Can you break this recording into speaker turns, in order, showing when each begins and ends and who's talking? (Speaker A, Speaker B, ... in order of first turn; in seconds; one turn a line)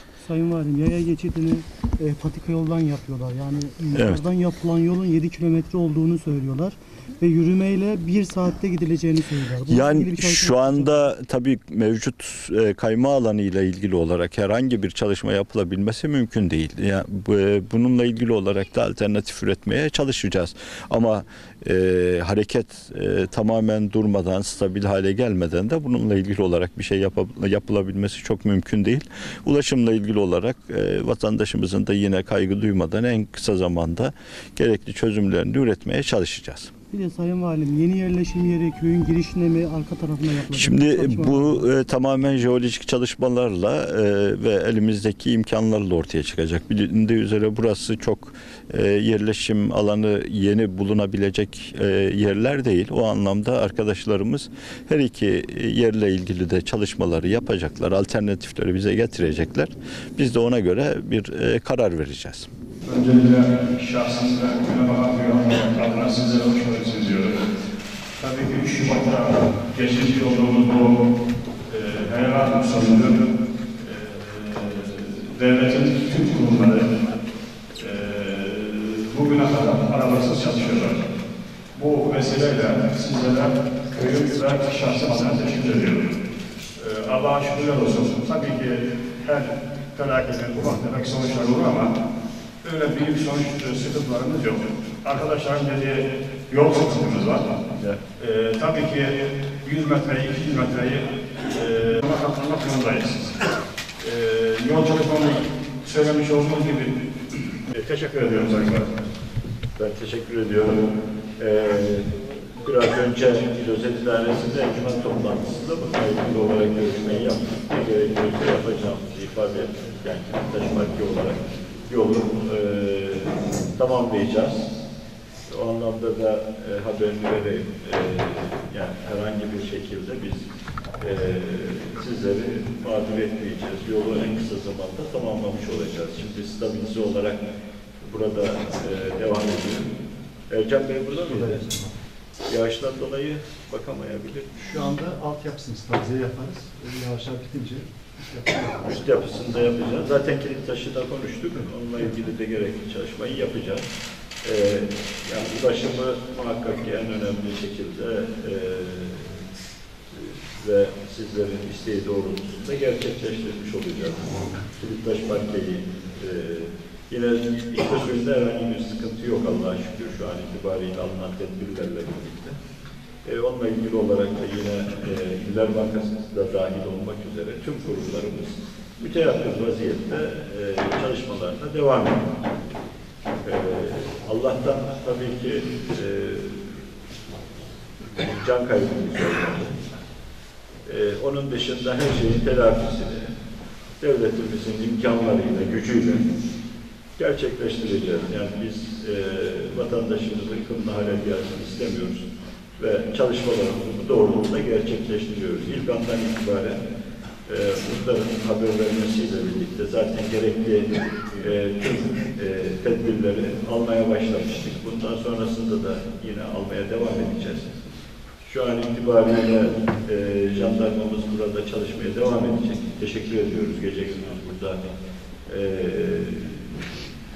Speaker A: 0.2-11.1
Speaker B: 3.9-4.2
Speaker B: 9.7-36.7
Speaker A: 36.9-41.7
Speaker B: 40.5-62.5
Speaker C: 62.9-67.4
Speaker C: 68.2-71.0
Speaker C: 71.7-73.2
Speaker C: 73.8-77.1
Speaker C: 77.8-81.1
Speaker C: 81.8-86.2
Speaker C: 86.8-92.0
Speaker C: 92.6-97.6
Speaker B: 97.8-98.0
Speaker C: 98.2-103.5
Speaker C: 104.0-109.0
Speaker B: 109.8-124.7
Speaker B: 125.5-130.5
Speaker B: 131.0-137.4
Speaker B: 138.1-139.9
Speaker B: 140.5-141.7
Speaker D: 141.2-141.9
Speaker B: 142.5-144.5
Speaker D: 144.6-149.0
Speaker B: 148.8-153.8
Speaker B: 154.4-159.4
Speaker B: 160.1-172.6
Speaker B: 173.2-182.3
Speaker B: 183.4-186.8
Speaker B: 188.2-189.8
Speaker B: 190.9-193.3
Speaker B: 194.0-196.3
Speaker B: 197.2-206.8
Speaker B: 207.5-217.8
Speaker B: 218.4-224.8
Speaker B: 225.5-226.8